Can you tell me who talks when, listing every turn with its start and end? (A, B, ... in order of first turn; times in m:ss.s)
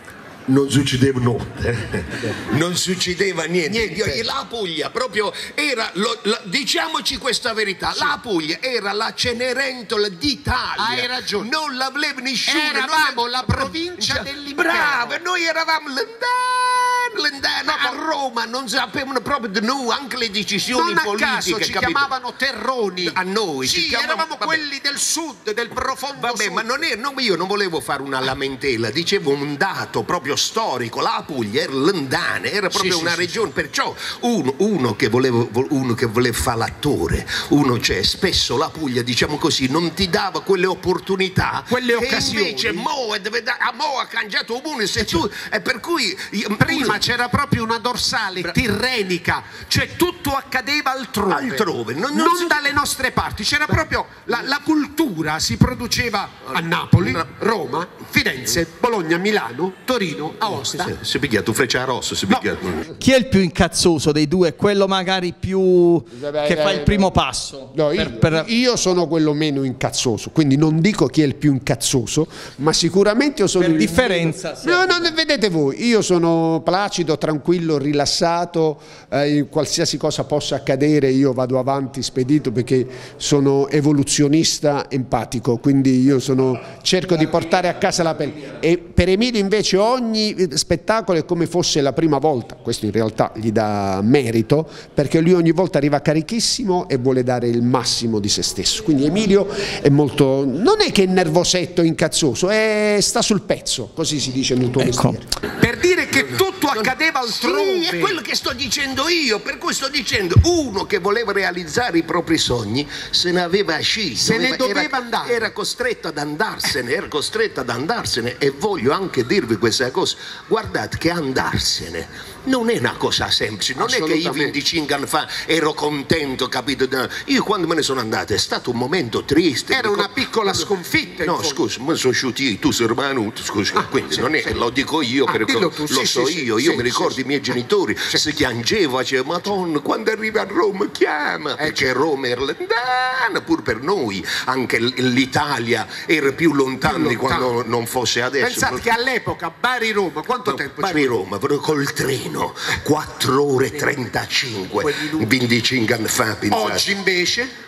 0:00.5-0:22.1 A
0:03.7-0:04.3 B
0:10.8-0:11.5 B
0:12.5-0:15.2 B
0:17.7-0:18.0 B
0:20.7-0:26.7 B
0:23.0-0:24.6 A
0:26.2-0:47.0 A
0:32.7-0:33.4 B
0:41.7-0:42.9 B
0:45.0-0:45.2 B
0:46.6-1:01.0 B
0:51.3-0:52.6 A
0:56.6-0:57.2 A
1:00.7-1:02.9 A
1:03.0-1:08.5 C
1:06.1-1:07.1 D
1:07.7-1:45.3 D
1:13.6-1:15.1 C
1:44.8-1:45.2 C
1:45.6-1:48.2 B
1:46.7-2:10.7 A
1:54.2-1:55.5 B
2:03.8-2:04.6 B
2:09.7-2:11.6 B
2:11.2-2:28.8 A
2:13.7-2:14.6 B
2:15.3-2:17.2 B
2:21.6-2:21.9 B
2:26.8-2:27.5 B
2:28.4-2:31.2 B
2:30.4-2:37.0 A
2:34.8-2:35.3 B
2:36.5-2:37.5 B